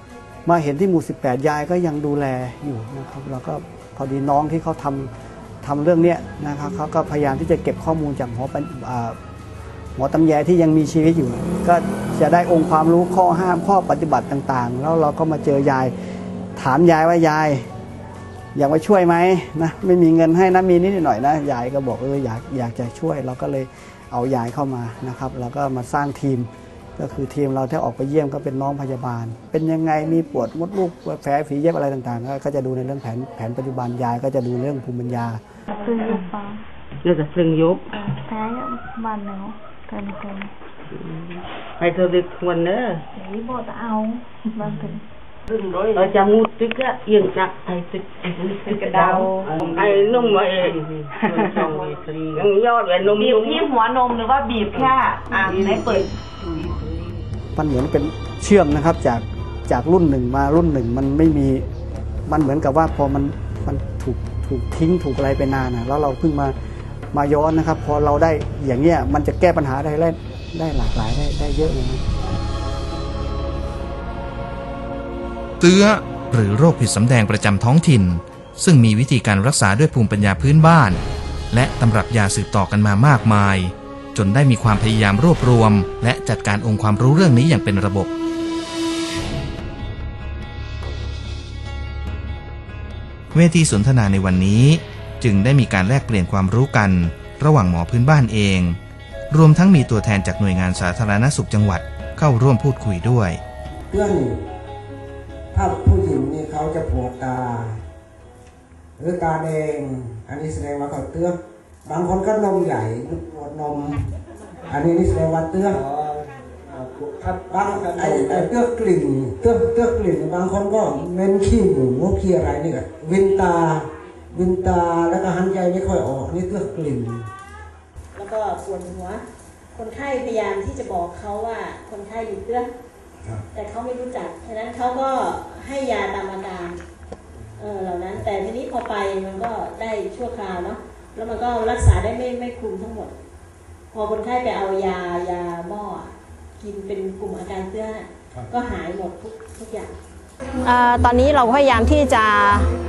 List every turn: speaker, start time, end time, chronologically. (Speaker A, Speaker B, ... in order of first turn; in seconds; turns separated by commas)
Speaker A: 0.5-5.1, Speaker A: 5.6-9.2, Speaker A: 9.9-15.9, Speaker A: 16.6-17.6, Speaker A: 18.5-35.4, Speaker B: 35.7-36.6, Speaker C: 37.0-37.8, Speaker B: 38.0-40.5, Speaker C: 40.9-43.0, Speaker B: 43.1-45.0, Speaker D: 45.5-46.1, Speaker C: 45.9-53.8, Speaker D: 48.4-50.3, Speaker D: 51.1-52.5, Speaker D: 53.1-56.8, Speaker C: 55.4-55.8, Speaker A: 57.5-61.6, Speaker A: 62.3-66.5, Speaker A: 67.1-72.0, Speaker E: 75.6-88.1, Speaker E: 93.3-98.8, Speaker E: 99.3-103.4, Speaker F: 103.9-104.3, Speaker F: 105.5-107.8, Speaker F: 109.0-114.0, Speaker F: 114.7-115.9, Speaker F: 117.2-127.2, Speaker G: 128.1-132.7, Speaker G: 133.5-136.8, Speaker G: 137.6-143.2, Speaker G: 143.9-149.9, Speaker H: 150.6-152.7